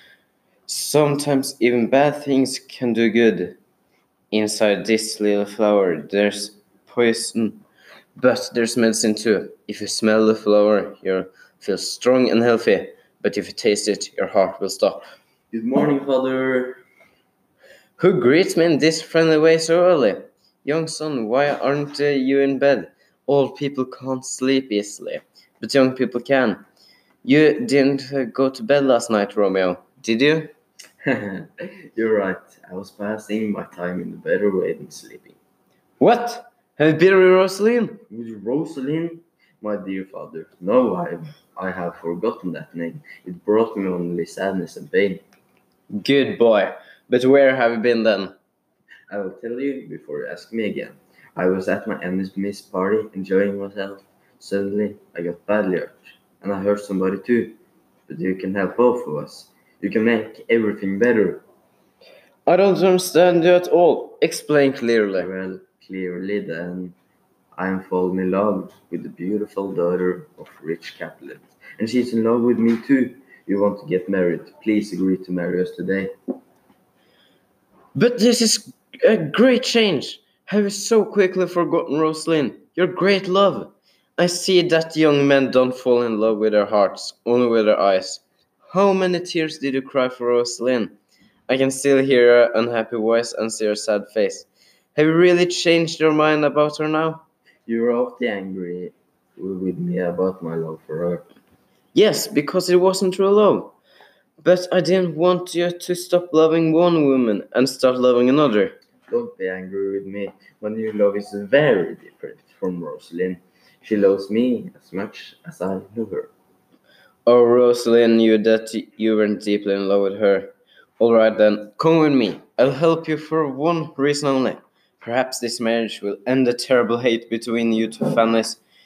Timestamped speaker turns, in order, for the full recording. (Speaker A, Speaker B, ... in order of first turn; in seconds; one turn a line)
Speaker A: 0.7-3.5
Speaker A: 4.3-7.6
Speaker A: 8.2-15.1
Speaker B: 15.5-16.8
Speaker A: 18.0-26.6
Speaker A: 27.2-30.5
Speaker B: 31.0-35.4
Speaker A: 36.0-38.0
Speaker B: 38.1-45.2
Speaker A: 45.9-48.3
Speaker B: 49.1-57.6
Speaker B: 58.1-61.4
Speaker A: 62.5-65.3
Speaker B: 65.2-66.9
Speaker B: 67.5-76.1
Speaker A: 77.9-90.9
Speaker A: 91.5-97.2
Speaker B: 97.7-101.2
Speaker A: 101.9-103.8
Speaker A: 104.4-108.7
Speaker B: 109.1-116.3
Speaker A: 117.2-128.6